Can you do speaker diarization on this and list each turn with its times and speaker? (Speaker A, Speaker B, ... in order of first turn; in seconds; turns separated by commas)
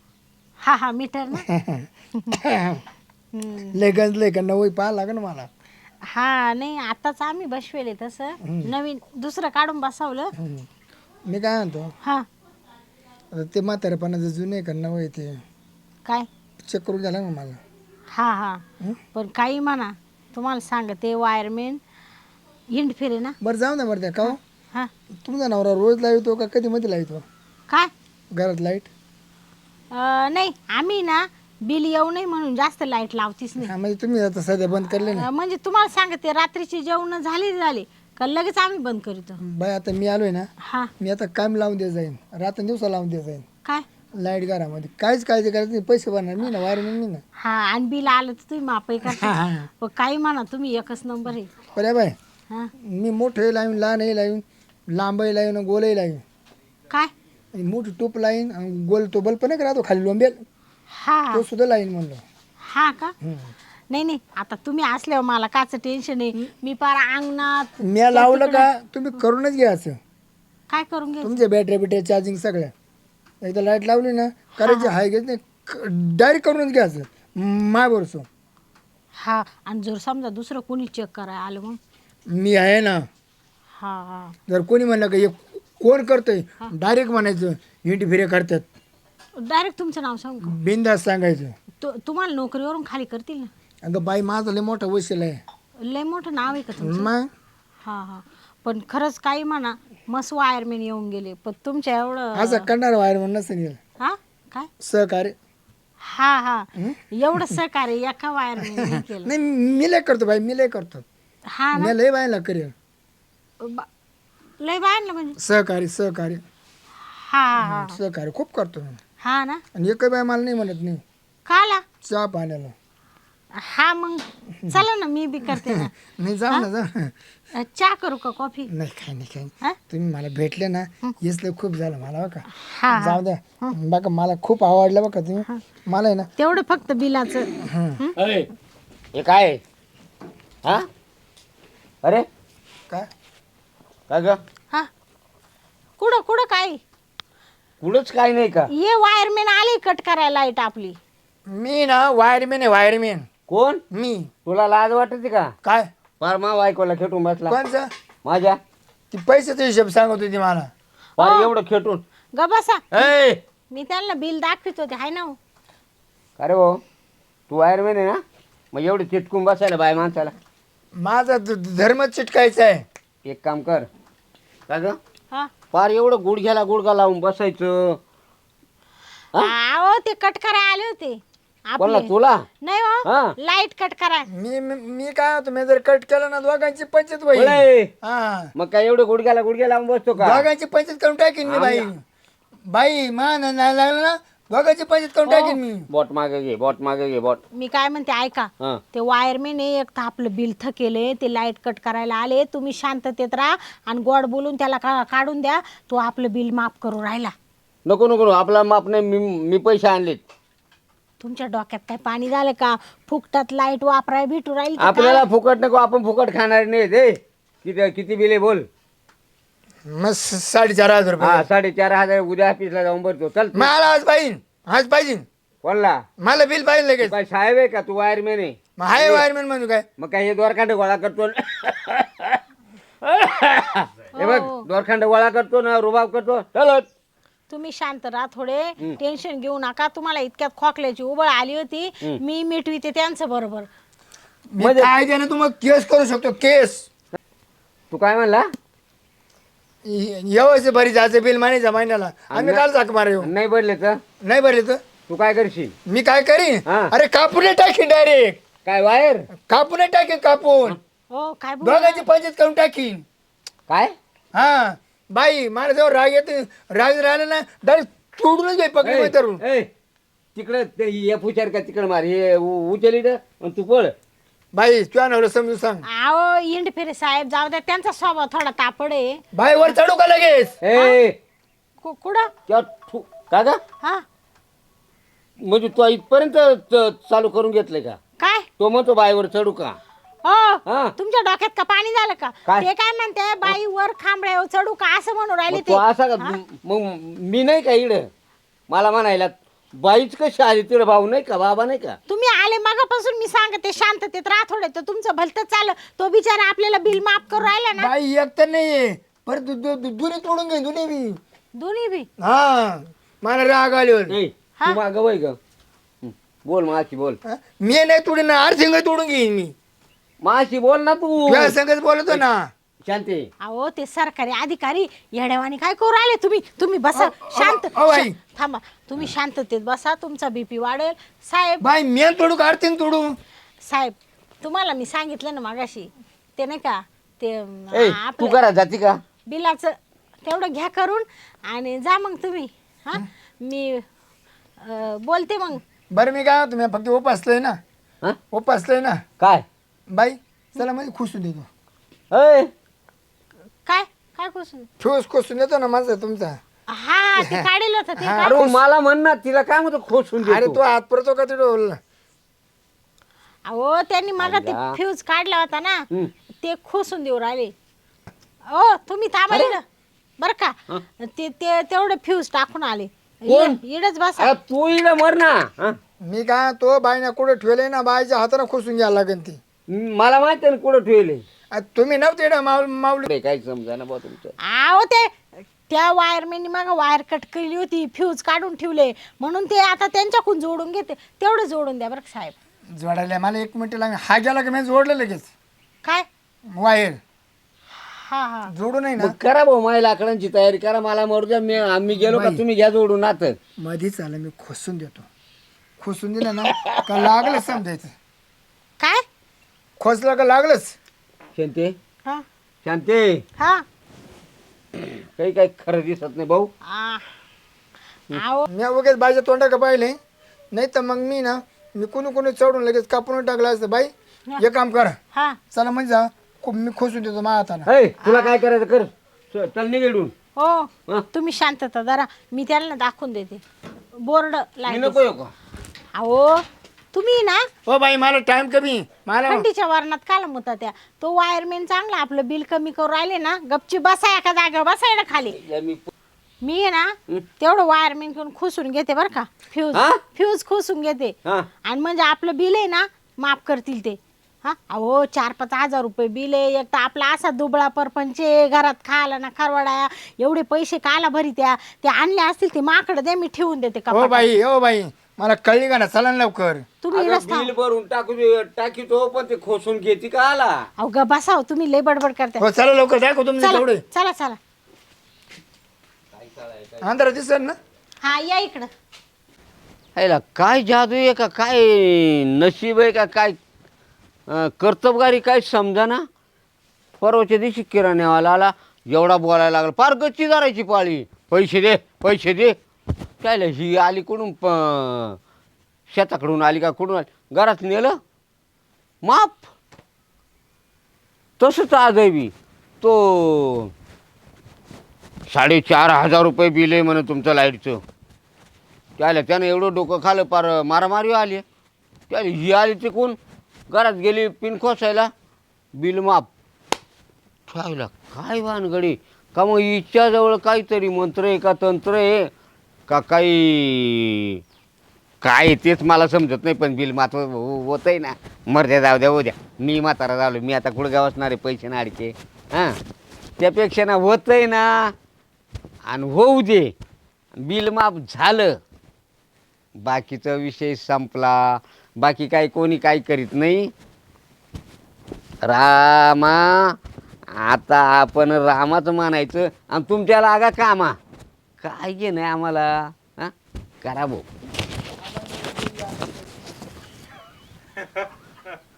Speaker A: 0.6-1.5, Speaker B: 1.4-2.8, Speaker A: 3.3-3.8, Speaker B: 3.7-5.5, Speaker A: 6.1-10.3, Speaker B: 8.4-8.7, Speaker B: 10.4-10.7, Speaker B: 11.3-11.9, Speaker B: 13.3-15.4, Speaker B: 16.6-17.6, Speaker A: 18.1-18.6, Speaker A: 19.1-21.8, Speaker A: 22.7-23.4, Speaker B: 23.4-24.4, Speaker A: 24.2-24.9, Speaker B: 25.2-27.2, Speaker B: 28.3-28.9, Speaker A: 29.9-33.7, Speaker B: 33.6-35.3, Speaker A: 34.9-39.4, Speaker B: 39.4-40.5, Speaker A: 40.6-40.9, Speaker B: 41.0-43.5, Speaker B: 44.2-47.2, Speaker A: 47.4-51.5, Speaker B: 49.1-49.7, Speaker B: 51.7-52.1, Speaker B: 52.8-56.2, Speaker B: 57.5-60.4, Speaker A: 60.9-61.4, Speaker B: 61.3-62.2, Speaker A: 62.7-63.1, Speaker B: 63.2-63.5, Speaker A: 63.9-68.7, Speaker B: 67.8-70.0, Speaker A: 70.7-71.4, Speaker B: 71.2-72.7, Speaker B: 73.4-78.3, Speaker A: 74.6-75.0, Speaker A: 79.2-81.8, Speaker B: 82.3-83.0, Speaker A: 83.8-84.4, Speaker B: 84.5-88.7, Speaker A: 89.4-90.6, Speaker B: 90.4-91.5, Speaker A: 91.8-93.5, Speaker B: 93.8-95.4, Speaker A: 95.8-97.1, Speaker B: 96.8-97.3, Speaker A: 97.8-102.7, Speaker B: 102.4-103.8, Speaker A: 104.0-104.7, Speaker B: 104.8-105.3, Speaker A: 106.0-109.3, Speaker B: 106.8-107.6, Speaker B: 108.6-111.1, Speaker A: 111.5-112.0, Speaker B: 111.7-112.7, Speaker A: 113.6-113.9, Speaker A: 114.6-115.4, Speaker B: 115.4-116.4, Speaker A: 117.1-118.0, Speaker B: 117.6-119.0, Speaker A: 119.2-119.6, Speaker B: 119.8-121.0, Speaker A: 121.5-121.8, Speaker B: 122.0-122.8, Speaker A: 123.5-125.9, Speaker B: 125.5-127.1, Speaker A: 127.5-128.7, Speaker B: 128.7-136.3, Speaker A: 132.6-133.8, Speaker A: 136.4-138.2, Speaker B: 137.6-138.0, Speaker C: 138.2-138.5, Speaker C: 139.2-139.6, Speaker C: 144.1-144.4, Speaker A: 146.0-146.8, Speaker C: 147.8-148.7, Speaker A: 148.7-151.0, Speaker B: 151.5-153.3, Speaker C: 153.5-153.8, Speaker B: 153.9-154.3, Speaker C: 154.5-155.5, Speaker B: 155.6-155.9, Speaker C: 156.2-157.6, Speaker B: 157.5-157.9, Speaker C: 158.2-158.6, Speaker B: 159.1-160.7, Speaker A: 161.2-161.5, Speaker C: 161.2-162.0, Speaker A: 162.3-163.1, Speaker C: 162.9-163.4, Speaker A: 163.7-165.4, Speaker C: 166.4-166.8, Speaker C: 167.5-168.2, Speaker C: 168.7-170.3, Speaker B: 171.0-172.8, Speaker C: 173.2-173.9, Speaker C: 174.7-175.0, Speaker C: 175.7-177.9, Speaker A: 179.4-184.3, Speaker C: 181.8-182.4, Speaker C: 183.1-183.3, Speaker B: 184.3-188.5, Speaker C: 187.3-187.9, Speaker C: 188.6-190.5, Speaker B: 190.2-192.0, Speaker C: 191.5-191.9, Speaker B: 192.7-195.9, Speaker C: 195.3-197.4, Speaker A: 197.5-207.3, Speaker C: 207.9-210.2, Speaker A: 211.2-215.2, Speaker C: 214.8-218.7, Speaker B: 219.9-221.5, Speaker C: 221.2-223.7, Speaker B: 223.5-225.2, Speaker C: 225.6-226.0, Speaker B: 226.2-227.2, Speaker C: 227.0-229.2, Speaker B: 228.8-229.9, Speaker C: 230.0-232.4, Speaker C: 233.0-236.9, Speaker A: 234.2-234.7, Speaker A: 237.5-243.7, Speaker B: 244.5-246.9, Speaker C: 244.6-244.9, Speaker C: 247.9-248.4, Speaker B: 249.8-253.3, Speaker C: 252.3-252.7, Speaker C: 253.2-254.0, Speaker B: 254.2-254.8, Speaker C: 255.1-255.7, Speaker B: 255.9-258.4, Speaker C: 256.7-256.9, Speaker C: 258.7-259.3, Speaker B: 259.5-260.8, Speaker A: 261.1-262.1, Speaker B: 261.6-263.0, Speaker C: 263.7-263.9, Speaker B: 264.3-269.4, Speaker C: 268.8-269.7, Speaker C: 270.4-273.9, Speaker B: 274.5-275.9, Speaker A: 275.9-279.2, Speaker B: 279.3-280.6, Speaker C: 280.6-281.2, Speaker A: 280.7-281.0, Speaker A: 281.8-282.3, Speaker C: 282.5-283.6, Speaker C: 285.4-288.0, Speaker A: 288.2-288.5, Speaker C: 288.6-289.8, Speaker A: 290.2-296.4, Speaker C: 290.7-290.9, Speaker C: 295.5-298.1, Speaker C: 298.7-302.0, Speaker A: 302.1-307.9, Speaker B: 307.8-311.2, Speaker A: 311.6-312.1, Speaker B: 312.2-314.2, Speaker C: 314.1-315.4, Speaker C: 316.0-317.2, Speaker B: 317.2-319.5, Speaker C: 320.2-321.6, Speaker B: 321.2-322.5, Speaker C: 322.9-323.3, Speaker A: 323.4-331.7, Speaker B: 326.9-328.2, Speaker B: 331.6-333.2, Speaker A: 333.6-338.4, Speaker C: 337.7-339.0, Speaker A: 339.3-343.9, Speaker A: 344.6-345.6, Speaker B: 345.9-347.6, Speaker B: 348.3-349.0, Speaker C: 349.2-349.4, Speaker B: 349.9-351.5, Speaker C: 352.1-352.5, Speaker A: 353.7-354.7, Speaker B: 354.8-356.4, Speaker A: 356.7-358.5, Speaker B: 357.2-358.6, Speaker C: 358.2-360.6, Speaker B: 360.2-361.8, Speaker A: 363.5-365.9, Speaker C: 364.2-364.8, Speaker A: 366.4-367.5, Speaker A: 368.5-369.6, Speaker A: 370.2-374.3, Speaker C: 373.3-373.6, Speaker C: 374.2-375.8, Speaker B: 376.0-379.4, Speaker C: 379.7-381.2, Speaker B: 381.5-383.1, Speaker C: 383.1-384.4, Speaker A: 384.4-385.1, Speaker A: 385.7-392.4, Speaker B: 392.8-395.3, Speaker B: 396.5-397.0, Speaker A: 397.9-398.5, Speaker B: 398.5-399.2, Speaker C: 399.0-403.4, Speaker B: 401.9-402.4, Speaker B: 403.6-405.1, Speaker B: 405.8-407.9, Speaker C: 406.6-407.4, Speaker B: 409.8-410.8, Speaker C: 411.4-411.8, Speaker C: 412.6-413.2, Speaker A: 413.4-413.6, Speaker C: 414.8-416.5, Speaker A: 416.6-417.1, Speaker A: 418.1-418.5, Speaker B: 418.5-420.0, Speaker B: 420.5-425.0, Speaker B: 425.5-427.7, Speaker C: 427.7-430.1, Speaker A: 428.0-428.4, Speaker A: 430.4-433.4, Speaker A: 434.0-435.0, Speaker C: 434.7-435.3, Speaker A: 436.0-437.5, Speaker B: 437.7-439.4, Speaker A: 439.3-445.4, Speaker C: 445.4-445.9, Speaker A: 446.4-464.3, Speaker C: 449.7-450.0, Speaker B: 463.9-466.7, Speaker A: 466.8-467.5, Speaker C: 466.9-470.7, Speaker A: 470.8-472.4, Speaker B: 472.4-473.8, Speaker A: 473.4-474.4, Speaker C: 476.1-476.9, Speaker B: 476.8-477.6, Speaker A: 478.0-478.7, Speaker C: 480.0-483.4, Speaker C: 484.3-486.0, Speaker C: 487.0-492.6, Speaker C: 493.2-495.2, Speaker C: 495.9-498.0, Speaker C: 499.0-499.4, Speaker C: 501.4-503.7, Speaker C: 505.3-507.8, Speaker C: 509.0-511.4, Speaker C: 512.1-513.2, Speaker C: 513.7-515.1, Speaker C: 515.8-516.3, Speaker C: 517.5-522.3, Speaker C: 522.9-524.4, Speaker C: 525.2-532.8, Speaker C: 533.4-534.9, Speaker C: 535.9-536.7, Speaker C: 537.4-538.5, Speaker C: 539.8-543.7, Speaker C: 545.4-546.7, Speaker C: 547.3-551.0, Speaker C: 551.6-553.3, Speaker C: 553.8-554.2, Speaker B: 555.0-556.5